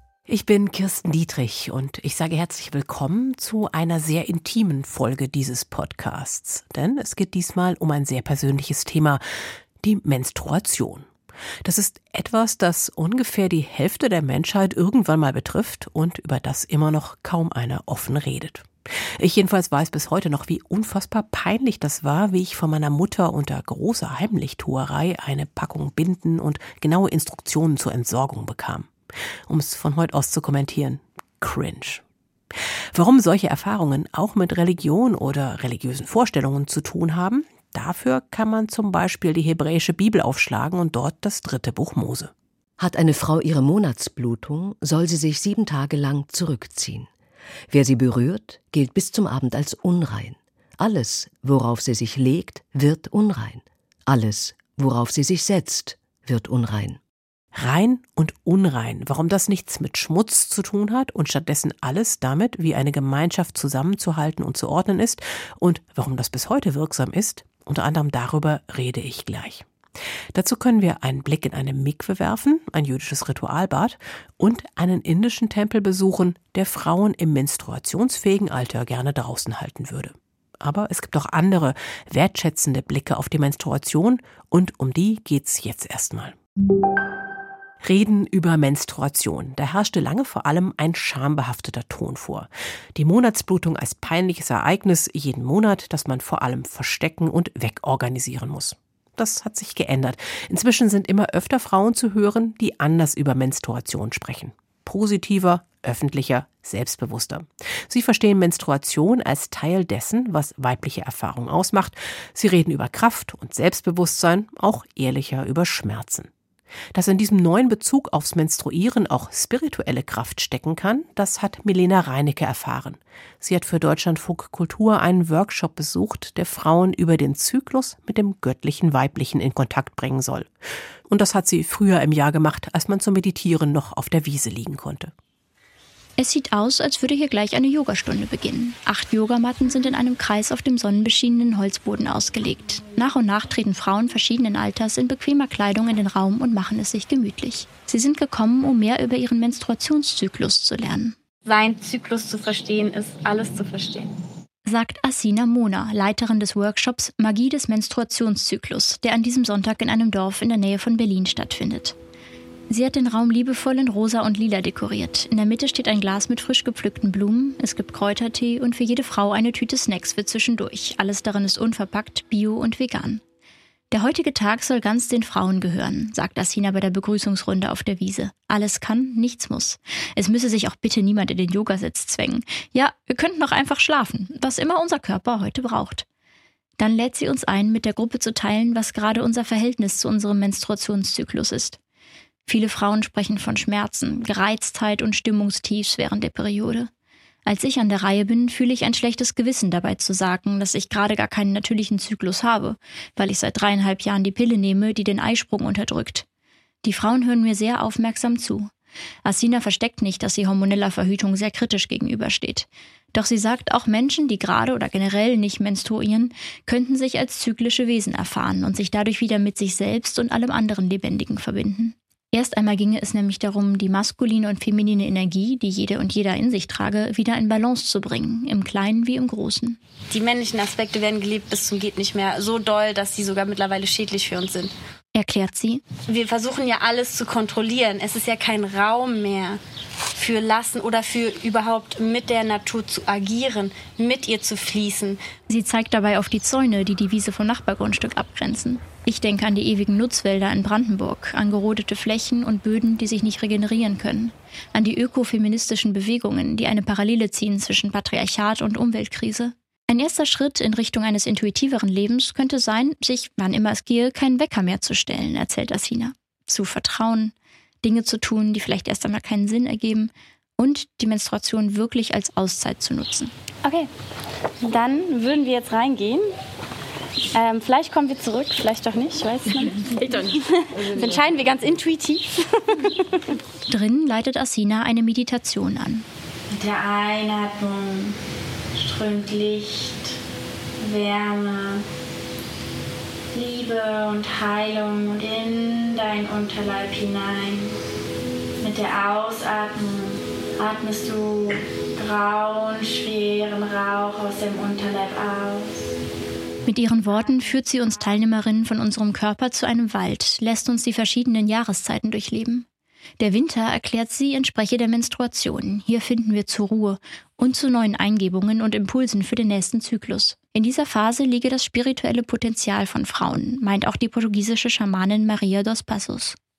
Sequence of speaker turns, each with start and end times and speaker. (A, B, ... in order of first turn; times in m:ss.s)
0:00.3-0:09.2 A
0:09.8-0:11.1 A
0:11.6-0:28.9 A
0:29.5-0:32.0 A
0:32.9-0:42.3 A
0:42.8-0:47.1 B
0:47.7-0:57.0 B
0:57.5-1:09.7 A
1:10.3-1:26.4 A
1:27.8-1:56.3 A
1:56.9-2:10.5 A
2:11.1-2:15.1 A
2:16.2-2:31.2 C
2:31.4-2:34.1 D
2:34.7-2:42.0 C
2:42.7-2:53.2 C
2:53.9-3:06.0 C
3:06.8-3:11.8 C
3:12.5-3:16.9 C
3:17.4-3:26.3 C
3:26.8-3:28.7 C
3:29.2-3:49.8 C
3:50.1-3:54.7 D
3:55.2-3:55.8 C
3:56.0-3:59.6 D
4:00.2-4:05.2 D
4:05.5-4:33.3 C
4:33.6-4:33.9 D
4:34.6-4:36.3 D
4:37.3-4:43.4 D
4:43.7-4:46.0 C
4:46.5-4:48.2 D
4:48.8-4:50.2 D
4:50.8-4:51.8 D
4:53.3-4:57.7 D
4:58.6-5:05.7 D
5:06.7-5:12.7 C
5:06.8-5:07.9 D
5:13.2-5:26.4 C